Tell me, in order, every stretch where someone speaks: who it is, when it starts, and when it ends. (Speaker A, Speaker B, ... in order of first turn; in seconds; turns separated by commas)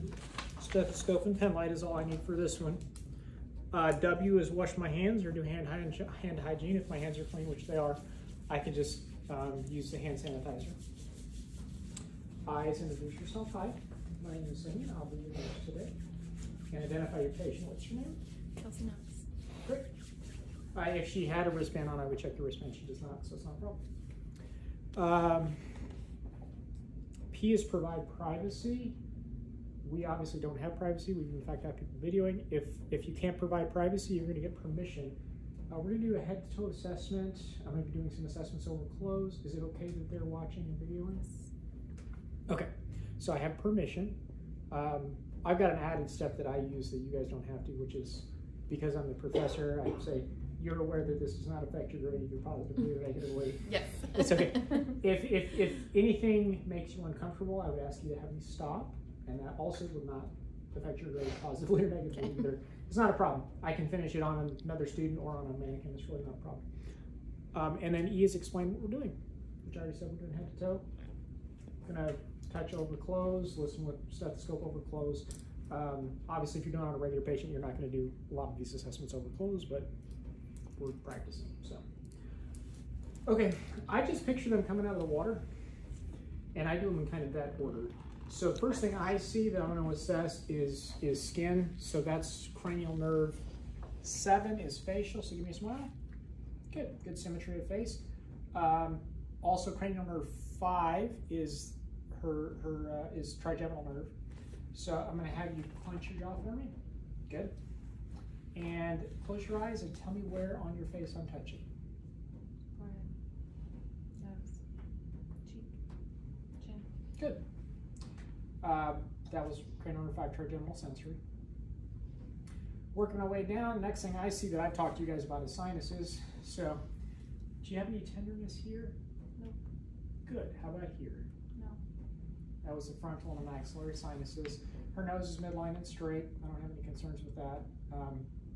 Speaker A: 0.6-2.8, Speaker A: 3.7-10.8, Speaker A: 12.5-15.9, Speaker A: 16.7-18.2, Speaker B: 18.6-19.2, Speaker A: 19.6-19.9, Speaker A: 20.8-23.8, Speaker A: 24.9-25.6, Speaker A: 27.3-29.0, Speaker A: 29.8-35.2, Speaker A: 35.7-41.2, Speaker B: 41.2-41.4, Speaker A: 42.5-44.2, Speaker A: 44.7-66.6, Speaker A: 67.5-70.9, Speaker A: 71.9-79.9, Speaker A: 80.8-81.8, Speaker A: 83.3-85.5, Speaker A: 86.5-93.4, Speaker A: 94.0-95.9, Speaker A: 96.7-104.1, Speaker A: 104.7-106.7, Speaker A: 107.3-107.5, Speaker A: 108.5-111.6, Speaker B: 112.8-113.1, Speaker B: 114.2-114.5, Speaker B: 116.6-116.8, Speaker A: 118.6-121.2, Speaker A: 122.9-126.8, Speaker A: 127.6-128.9, Speaker A: 130.2-131.3, Speaker A: 132.6-138.3